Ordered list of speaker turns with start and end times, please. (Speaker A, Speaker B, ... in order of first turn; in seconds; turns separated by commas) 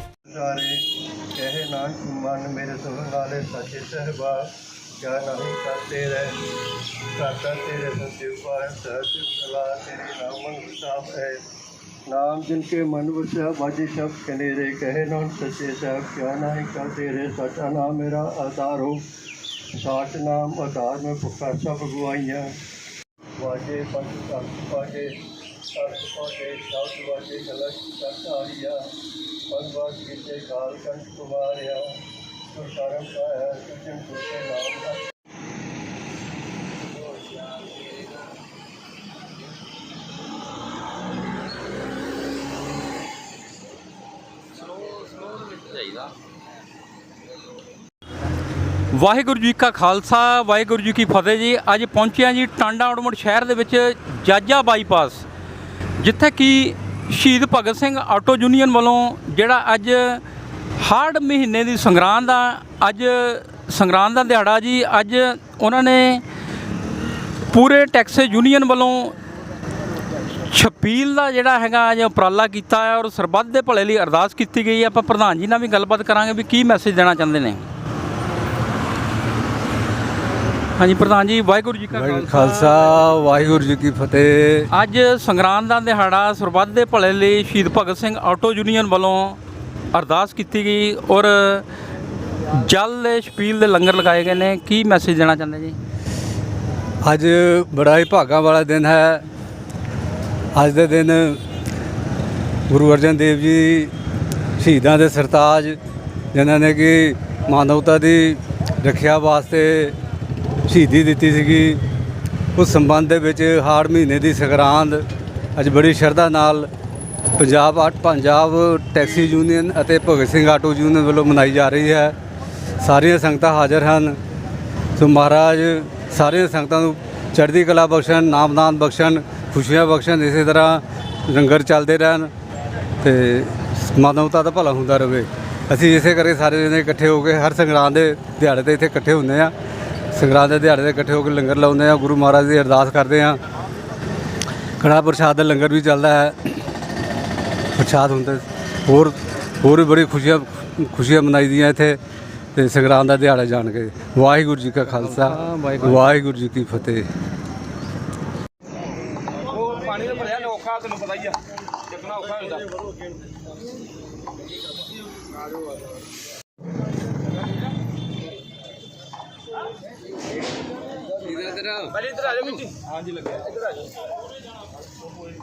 Speaker A: 0.3-6.4, Speaker A: 7.2-11.4, Speaker A: 12.1-19.1, Speaker A: 19.8-22.5, Speaker A: 23.4-25.1, Speaker A: 25.7-28.9, Speaker A: 29.5-35.1, Speaker B: 48.9-55.2, Speaker B: 56.0-60.2, Speaker B: 60.8-66.2, Speaker B: 67.5-69.2, Speaker B: 70.5-77.6, Speaker B: 80.8-82.9, Speaker C: 81.9-84.7, Speaker B: 84.7-89.4, Speaker B: 89.9-91.7, Speaker B: 92.5-95.8, Speaker C: 97.0-99.2, Speaker C: 100.5-101.4, Speaker C: 102.7-103.9, Speaker C: 104.6-105.8, Speaker C: 106.3-110.0, Speaker C: 110.7-111.8, Speaker C: 112.5-115.0, Speaker C: 115.6-116.7, Speaker C: 117.4-122.2, Speaker C: 122.8-124.2, Speaker C: 125.0-132.3, Speaker C: 133.0-139.5, Speaker C: 140.1-143.4, Speaker C: 144.8-146.4, Speaker C: 147.8-152.0, Speaker C: 152.6-157.1, Speaker B: 154.9-156.2, Speaker D: 159.6-161.4, Speaker D: 161.9-162.7, Speaker D: 172.0-172.7